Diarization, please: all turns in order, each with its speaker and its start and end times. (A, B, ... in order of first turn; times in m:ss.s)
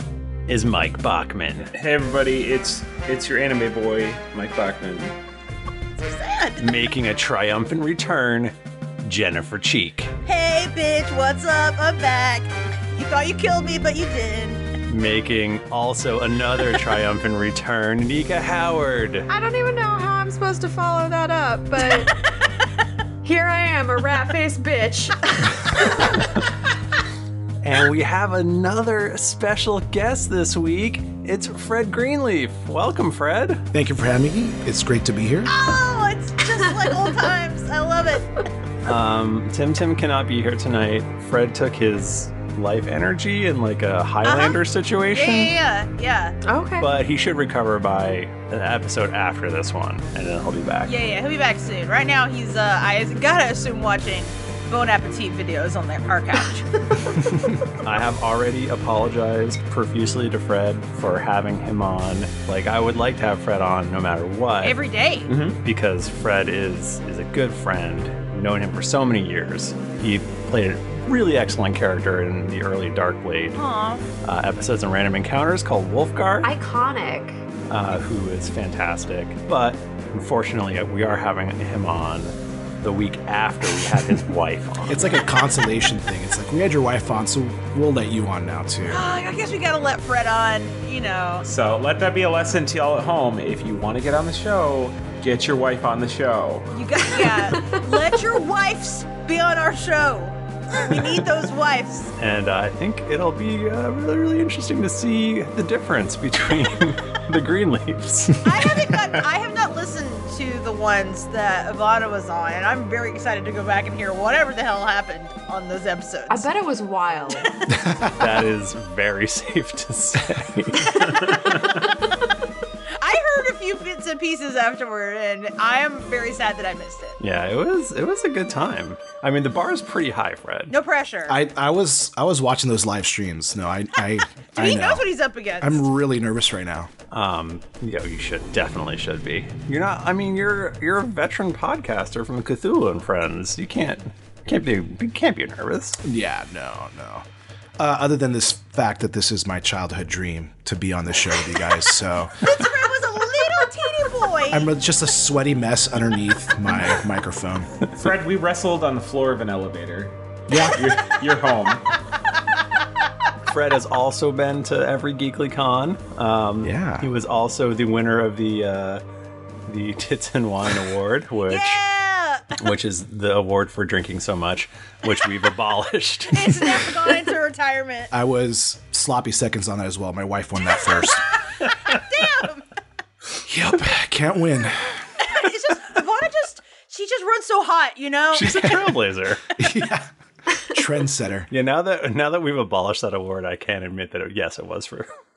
0:00.5-0:01.7 A
0:01.7-0:05.2 B
0:06.0-0:06.8 C
0:06.6-0:10.1 A
0:10.2-0:14.6 C
0:14.8-0:19.3 A
0:19.3-0:22.1 D
0:23.2-0:26.1 D
0:27.6-0:33.6 A
0:33.7-0:35.5 E
0:35.5-0:38.3 C
0:38.8-0:45.5 A
0:44.2-0:44.6 C
0:45.1-0:46.4 C
0:46.4-0:46.9 D
0:46.8-0:50.9 A
0:50.8-0:56.7 C
0:57.7-1:04.8 A
1:04.6-1:05.3 C
1:05.3-1:05.6 B
1:05.6-1:13.6 A
1:13.6-1:14.0 C
1:14.2-1:16.5 A
1:16.4-1:17.4 D
1:17.7-1:25.1 A
1:24.8-1:29.0 E
1:28.9-1:31.4 C
1:31.4-1:36.7 B
1:36.7-1:42.1 C
1:42.2-1:48.4 A
1:48.4-1:56.5 C
1:56.3-1:57.5 D
1:58.2-2:01.3 A
2:01.2-2:01.6 B
2:03.0-2:07.2 C
2:07.2-2:10.7 A
2:10.7-2:11.4 C
2:11.3-2:15.0 E
2:14.5-2:15.8 C
2:15.6-2:16.9 E
2:17.1-2:26.0 A
2:26.0-2:27.2 E
2:27.8-2:32.5 E
2:32.4-2:34.7 C
2:34.5-2:37.7 E
2:37.9-2:41.8 B
2:40.5-2:40.8 E
2:43.5-2:49.0 A
2:46.6-2:47.1 E
2:49.7-2:51.8 A
2:51.5-2:52.6 C
2:52.6-2:56.8 A
2:56.3-2:58.1 C
2:58.1-3:01.3 E
3:00.8-3:02.6 C
3:03.4-3:05.0 E
3:05.2-3:08.7 C
3:08.3-3:09.4 A
3:09.6-3:10.1 E
3:10.6-3:11.5 E
3:11.5-3:15.1 A